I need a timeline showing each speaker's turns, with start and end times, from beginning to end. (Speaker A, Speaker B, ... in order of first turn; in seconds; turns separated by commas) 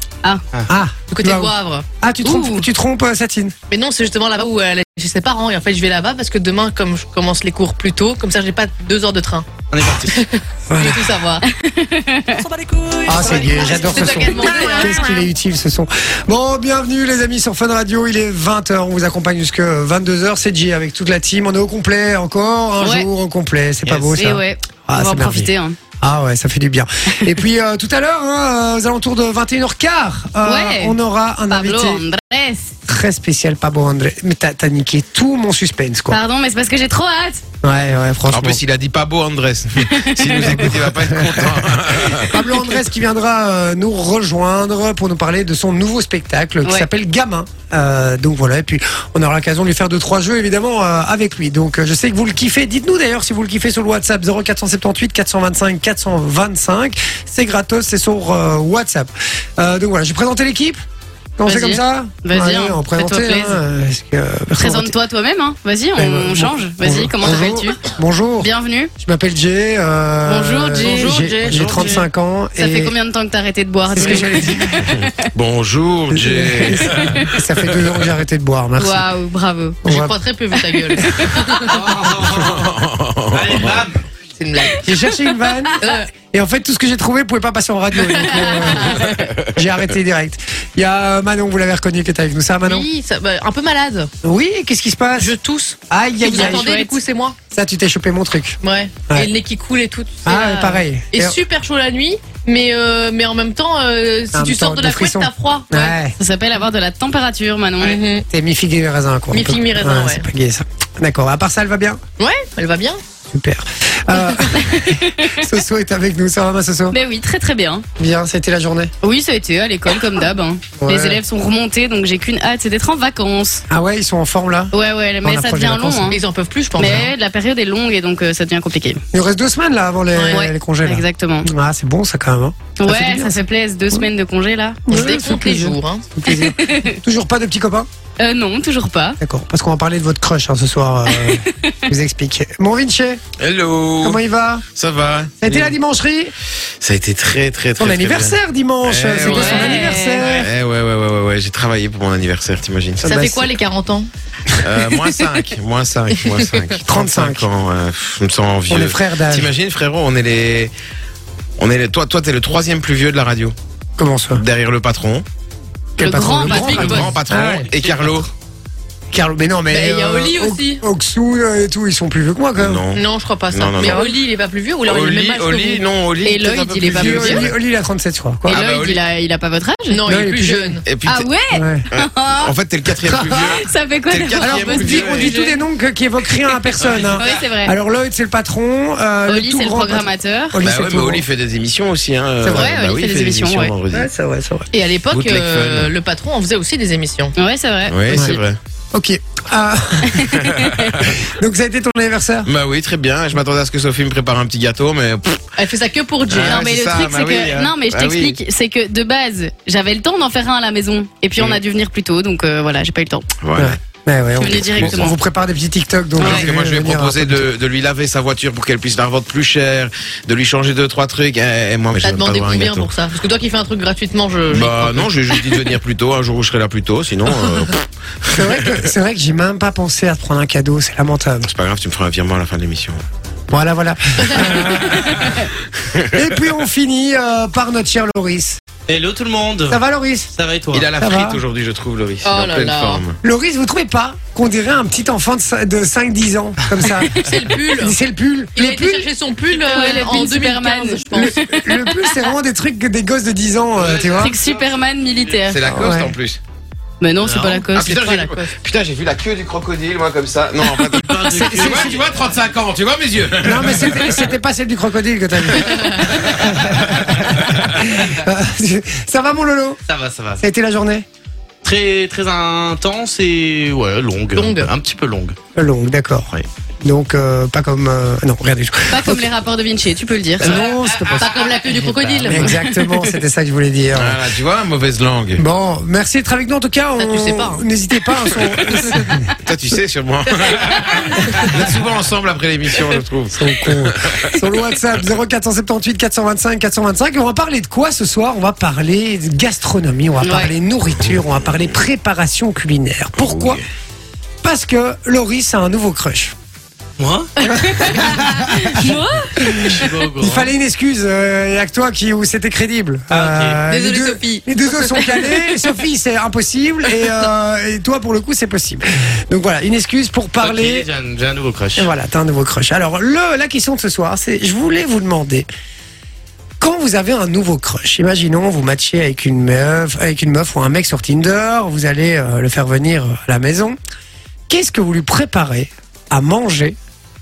Speaker A: 0.7-3.5, Speaker B: 1.1-1.9, Speaker C: 2.2-2.6, Speaker B: 3.7-9.5, Speaker D: 9.7-10.3, Speaker B: 10.0-11.4, Speaker A: 10.7-11.2, Speaker C: 11.4-12.4, Speaker A: 13.0-32.0, Speaker B: 13.1-15.2, Speaker C: 14.4-14.8, Speaker C: 22.8-23.1, Speaker D: 23.9-24.2, Speaker C: 24.1-25.8, Speaker C: 30.4-31.0, Speaker C: 31.5-32.7, Speaker A: 32.9-36.2, Speaker C: 36.1-37.4, Speaker A: 37.6-38.6, Speaker E: 38.3-42.3, Speaker C: 39.8-40.7, Speaker A: 40.5-60.8, Speaker A: 61.4-64.9, Speaker C: 61.4-63.6, Speaker C: 64.6-67.8, Speaker A: 66.0-72.9, Speaker C: 68.4-68.9, Speaker C: 70.2-71.1, Speaker B: 70.8-72.0, Speaker D: 71.4-71.9, Speaker C: 72.5-75.1, Speaker A: 73.9-74.8, Speaker E: 74.9-78.0, Speaker A: 76.1-79.0, Speaker C: 76.9-77.3, Speaker C: 78.8-79.8, Speaker A: 79.8-80.2, Speaker B: 79.8-82.0, Speaker C: 81.0-81.4, Speaker D: 81.6-82.7, Speaker E: 82.3-83.9, Speaker D: 83.3-84.0, Speaker B: 84.4-84.9, Speaker A: 84.8-92.9, Speaker B: 85.8-86.1, Speaker B: 87.9-89.3, Speaker B: 92.6-94.1, Speaker A: 94.2-95.3, Speaker B: 95.2-97.3, Speaker A: 95.9-96.7, Speaker C: 96.2-96.9, Speaker A: 97.5-99.3, Speaker B: 98.6-106.0, Speaker A: 100.2-101.4, Speaker A: 104.3-106.1, Speaker C: 106.2-108.0, Speaker B: 107.8-108.2, Speaker A: 108.3-112.0, Speaker B: 109.3-110.2, Speaker B: 112.2-113.0, Speaker A: 113.3-117.0, Speaker C: 114.5-115.4, Speaker C: 116.9-117.8, Speaker A: 118.0-118.9, Speaker C: 119.0-123.6, Speaker A: 120.8-121.2, Speaker A: 123.7-126.2, Speaker C: 124.7-126.2, Speaker B: 126.1-127.1, Speaker C: 126.8-129.0, Speaker A: 129.1-133.4, Speaker B: 130.1-130.4, Speaker C: 130.2-131.5, Speaker C: 132.8-135.2, Speaker A: 134.9-137.9, Speaker B: 134.9-136.1, Speaker C: 136.2-137.0, Speaker C: 138.2-139.2, Speaker A: 139.2-143.2, Speaker C: 141.1-141.7, Speaker E: 143.4-144.2, Speaker A: 144.0-144.6, Speaker E: 144.7-145.8, Speaker A: 145.4-146.3, Speaker E: 146.8-153.2, Speaker A: 147.8-150.5, Speaker C: 149.2-150.2, Speaker B: 153.0-154.1, Speaker A: 153.0-153.5, Speaker E: 154.6-160.7, Speaker A: 156.8-157.4, Speaker A: 158.7-159.5, Speaker E: 161.6-163.5, Speaker A: 164.0-164.4, Speaker E: 164.4-165.2, Speaker A: 166.0-167.7, Speaker C: 166.0-167.1, Speaker E: 166.5-168.3, Speaker D: 167.7-168.2, Speaker A: 169.1-172.8, Speaker B: 169.7-170.8, Speaker E: 172.6-174.0, Speaker B: 172.9-175.8, Speaker C: 173.8-174.1, Speaker E: 174.8-177.5, Speaker C: 176.2-177.5, Speaker A: 176.9-178.6, Speaker E: 178.5-179.0, Speaker C: 178.5-180.0, Speaker B: 179.9-180.8, Speaker A: 180.1-180.8, Speaker E: 180.8-181.3, Speaker C: 181.0-182.5, Speaker A: 181.5-181.8, Speaker E: 181.9-185.3, Speaker A: 183.0-183.5, Speaker C: 183.4-185.5, Speaker A: 184.4-191.2, Speaker C: 187.2-187.7, Speaker C: 189.2-190.6, Speaker E: 190.6-194.1, Speaker A: 192.4-192.7, Speaker C: 192.5-193.7, Speaker B: 192.5-192.8, Speaker A: 193.9-194.7, Speaker B: 194.7-197.3, Speaker E: 195.1-195.9, Speaker C: 197.3-198.4, Speaker E: 197.9-198.6, Speaker A: 198.1-198.4, Speaker A: 198.9-200.5, Speaker C: 200.2-201.0, Speaker E: 200.4-201.2, Speaker A: 201.0-202.5, Speaker E: 202.4-205.4, Speaker B: 205.6-206.7, Speaker E: 206.3-208.4, Speaker C: 206.3-213.2, Speaker E: 213.4-213.8, Speaker A: 213.6-217.5, Speaker C: 214.4-215.2, Speaker E: 214.5-215.1, Speaker E: 216.2-222.9, Speaker C: 216.2-216.4, Speaker B: 222.0-225.7, Speaker E: 224.5-228.8, Speaker A: 228.3-231.5, Speaker E: 231.4-233.0, Speaker A: 233.5-235.3, Speaker B: 234.2-234.5, Speaker E: 235.0-236.1, Speaker A: 236.1-238.6, Speaker D: 238.9-239.8, Speaker A: 239.7-240.3, Speaker D: 240.3-240.9, Speaker E: 240.7-243.2, Speaker A: 241.0-241.4, Speaker B: 242.2-243.0, Speaker A: 243.2-247.1, Speaker B: 247.2-247.9, Speaker A: 247.7-249.1, Speaker B: 248.5-251.3, Speaker C: 249.5-252.3, Speaker A: 251.1-254.3, Speaker D: 253.8-254.7, Speaker C: 254.2-255.6, Speaker E: 255.5-256.4, Speaker A: 255.7-256.1, Speaker C: 257.0-258.0, Speaker D: 257.2-257.6, Speaker E: 257.7-264.2, Speaker B: 257.8-258.5, Speaker C: 260.9-261.2, Speaker D: 260.9-262.3, Speaker A: 261.3-261.9, Speaker A: 263.4-269.8, Speaker E: 266.9-267.7, Speaker D: 269.9-270.4, Speaker A: 270.4-271.1, Speaker D: 271.6-275.3, Speaker B: 274.4-274.7, Speaker A: 275.5-276.3, Speaker A: 276.8-279.3, Speaker C: 278.9-280.5, Speaker A: 280.4-281.3, Speaker D: 280.4-282.5, Speaker B: 281.2-282.5, Speaker A: 282.3-284.2, Speaker C: 282.6-283.1, Speaker E: 283.9-285.4, Speaker A: 285.4-289.3, Speaker B: 287.0-287.6, Speaker E: 289.4-294.4, Speaker B: 290.3-291.5, Speaker A: 293.3-303.6, Speaker C: 300.2-300.5, Speaker E: 303.2-303.6, Speaker A: 304.4-306.3, Speaker D: 307.0-307.3, Speaker C: 307.4-309.6, Speaker A: 307.5-320.9, Speaker D: 309.5-310.5, Speaker D: 313.1-313.6, Speaker B: 313.6-315.4, Speaker D: 320.4-321.9, Speaker A: 321.8-325.5, Speaker A: 326.6-333.8, Speaker A: 334.5-336.8